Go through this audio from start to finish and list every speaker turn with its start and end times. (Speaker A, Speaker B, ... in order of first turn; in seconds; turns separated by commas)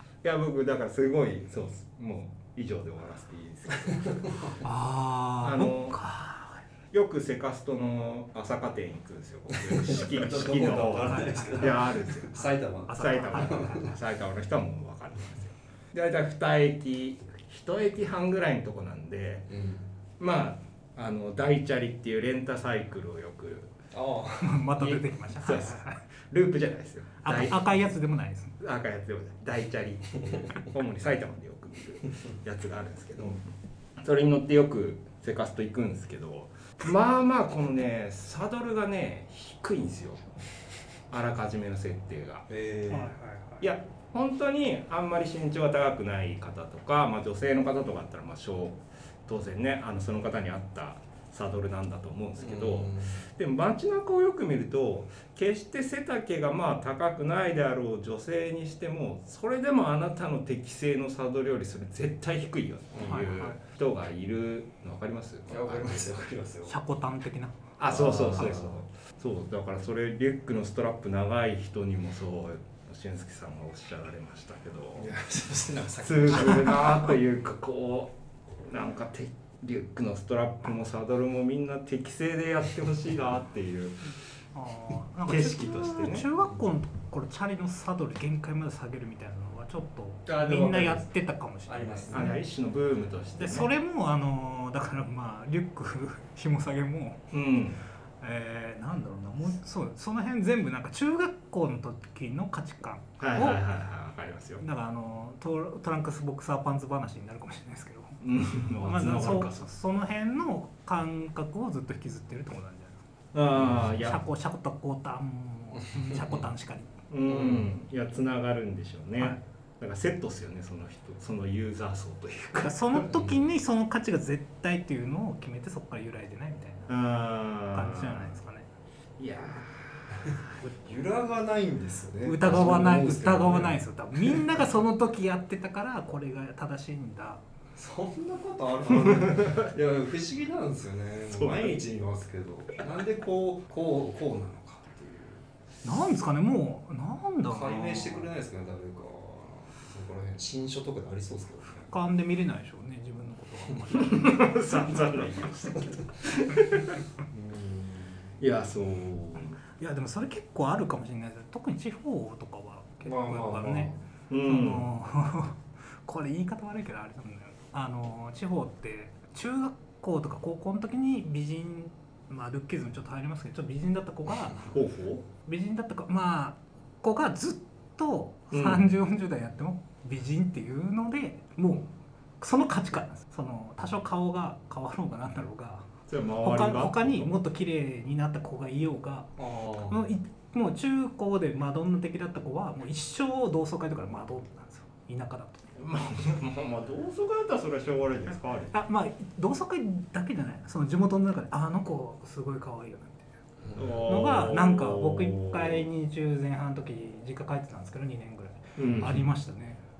Speaker A: 0.2-4.3, Speaker B: 3.8-4.5, Speaker C: 4.6-6.6, Speaker A: 5.4-6.0, Speaker A: 6.9-19.5, Speaker B: 9.5-13.9, Speaker C: 11.1-13.9, Speaker B: 19.5-19.9, Speaker A: 20.2-23.7, Speaker B: 23.9-24.6, Speaker C: 24.4-26.1, Speaker A: 24.8-27.9, Speaker C: 27.2-28.6, Speaker A: 28.6-33.4, Speaker A: 34.0-40.3, Speaker A: 41.1-42.5, Speaker B: 42.5-43.1, Speaker C: 42.9-43.7, Speaker A: 43.6-66.2, Speaker B: 52.4-53.2, Speaker B: 62.9-63.3, Speaker C: 63.0-63.6, Speaker B: 65.5-66.8, Speaker C: 66.7-67.6, Speaker A: 67.8-75.1, Speaker B: 67.9-68.8, Speaker B: 75.0-77.1, Speaker A: 76.0-84.1, Speaker C: 84.5-92.4, Speaker A: 85.3-86.3, Speaker B: 90.3-91.1, Speaker B: 91.7-92.4, Speaker A: 92.1-93.7, Speaker C: 93.4-97.2, Speaker A: 97.3-97.8, Speaker C: 98.2-103.6, Speaker A: 103.2-104.6, Speaker C: 104.6-108.2, Speaker A: 108.2-109.7, Speaker C: 108.8-113.0, Speaker A: 113.3-114.2, Speaker B: 113.6-113.9, Speaker C: 113.8-116.9, Speaker B: 115.8-116.4, Speaker A: 117.1-123.1, Speaker B: 117.3-117.7, Speaker C: 122.6-126.9, Speaker B: 123.1-123.4, Speaker A: 126.9-128.3, Speaker C: 127.7-128.7, Speaker A: 129.2-130.4, Speaker B: 130.3-134.6, Speaker C: 132.2-137.4, Speaker B: 137.8-145.5, Speaker A: 139.1-139.7, Speaker A: 141.3-141.8, Speaker C: 145.8-148.3, Speaker B: 147.5-151.9, Speaker C: 151.7-154.7, Speaker A: 153.9-157.0, Speaker B: 157.3-158.4, Speaker A: 158.4-159.6, Speaker C: 159.8-174.7, Speaker B: 163.1-164.0, Speaker A: 164.3-164.9, Speaker A: 174.7-175.2, Speaker C: 175.4-181.9, Speaker A: 178.5-178.9, Speaker C: 182.4-185.9, Speaker A: 186.1-187.3, Speaker C: 186.4-189.3, Speaker B: 189.4-190.0, Speaker C: 189.9-195.7, Speaker A: 195.8-198.8, Speaker C: 198.7-203.3, Speaker B: 203.6-204.0, Speaker A: 203.8-205.9, Speaker C: 204.1-209.8, Speaker A: 208.8-209.3